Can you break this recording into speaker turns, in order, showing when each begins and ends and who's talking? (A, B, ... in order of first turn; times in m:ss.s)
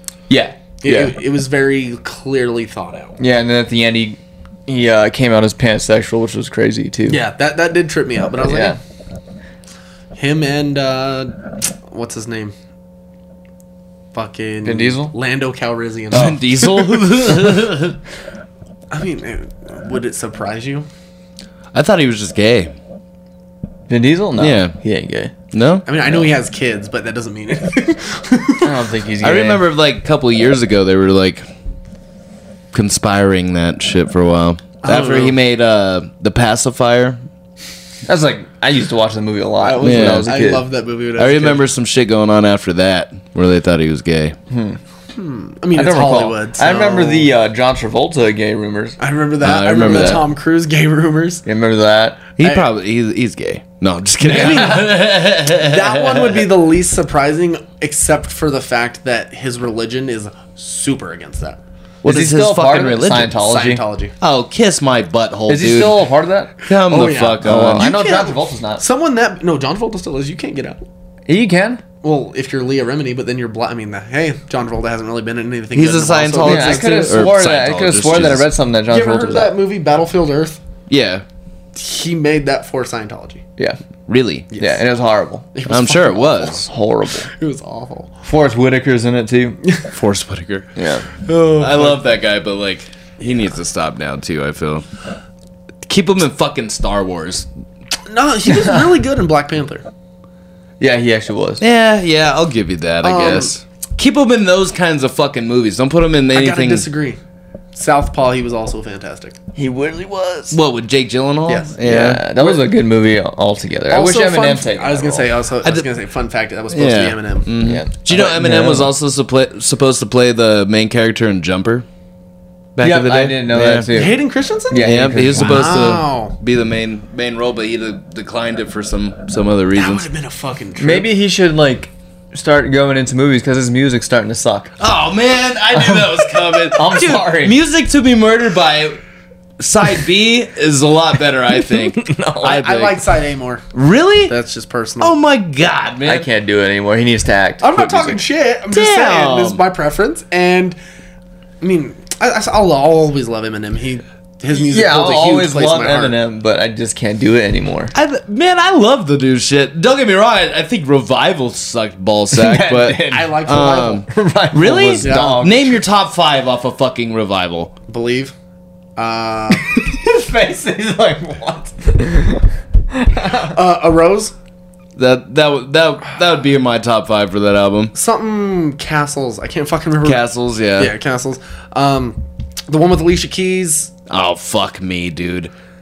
0:00.3-0:01.2 A
0:00.8-0:03.2 B
0:03.2-0:07.2 A
0:07.1-0:08.8 B
0:08.4-0:08.8 A
0:10.2-0:12.5 B
0:14.1-0:17.2 B
0:14.6-0:15.1 A
0:16.1-0:18.0 C
0:18.9-0:20.9 B
0:21.7-0:22.8 C
0:23.9-0:25.3 A
0:24.4-0:24.8 C
0:25.5-0:26.3 C
0:25.9-0:28.8 B
0:28.6-0:29.6 A
0:29.2-0:31.5 C
0:32.7-0:37.2 C
0:34.8-0:35.4 B
0:38.1-0:40.6 A
0:39.6-0:41.6 B
0:39.8-0:40.3 C
0:41.2-0:44.4 C
0:44.5-0:44.8 A
0:45.1-0:47.3 B
0:45.7-0:49.0 A
0:49.0-0:51.4 B
0:49.4-0:50.3 C
0:51.5-0:52.2 A
0:52.4-0:56.5 C
0:52.4-0:52.7 B
0:54.2-1:01.6 B
0:54.4-0:54.8 A
1:02.0-1:03.3 C
1:02.0-1:03.8 A
1:03.3-1:04.1 B
1:04.2-1:06.0 C
1:05.5-1:06.6 A
1:06.7-1:07.9 C
1:06.9-1:10.8 B
1:07.4-1:08.8 A
1:11.3-1:11.8 A
1:12.0-1:17.1 B
1:15.7-1:18.5 C
1:16.4-1:19.5 A
1:18.9-1:20.6 B
1:20.9-1:21.2 C
1:21.8-1:23.4 B
1:24.1-1:24.5 C
1:24.5-1:24.8 B
1:24.5-1:25.5 A
1:25.6-1:26.7 B
1:25.7-1:26.6 C
1:26.5-1:27.3 A
1:27.3-1:28.2 B
1:28.2-1:29.6 A
1:29.9-1:30.8 C
1:30.8-1:31.1 A
1:31.2-1:32.0 B
1:31.6-1:34.9 C
1:35.9-1:37.5 C
1:38.1-1:39.9 B
1:38.5-1:38.8 A
1:40.8-1:41.6 A
1:41.6-1:46.9 C
1:43.0-1:43.5 B
1:46.3-1:47.2 B
1:47.7-1:49.4 B
1:49.6-1:50.6 A
1:50.5-1:52.2 C
1:51.8-1:55.3 A
1:53.9-1:57.5 B
1:56.7-2:01.9 C
1:57.6-1:58.9 A
2:02.8-2:03.9 C
2:02.8-2:04.2 A
2:03.9-2:06.4 B
2:04.7-2:05.8 A
2:04.8-2:10.1 C
2:09.8-2:11.1 B
2:10.8-2:14.7 A
2:14.8-2:19.0 C
2:16.7-2:17.6 A
2:19.6-2:23.0 C
2:21.7-2:22.7 A
2:22.4-2:23.7 B
2:23.7-2:24.4 C
2:24.3-2:25.2 B
2:25.0-2:26.3 C
2:26.1-2:28.2 A
2:27.6-2:30.8 B
2:28.7-2:29.6 C
2:31.6-2:36.2 B
2:34.6-2:37.9 A
2:37.9-2:47.7 C
2:42.3-2:43.4 A
2:43.1-2:44.0 B
2:44.0-2:45.8 A
2:44.9-2:45.4 B
2:47.9-2:48.3 B
2:49.0-2:49.7 B
2:49.8-2:52.4 A
2:52.9-2:53.5 A
2:53.4-2:54.3 B
2:55.0-2:57.9 C
2:57.9-3:00.2 B
3:00.0-3:00.9 C
3:00.8-3:03.9 B
3:04.1-3:05.5 C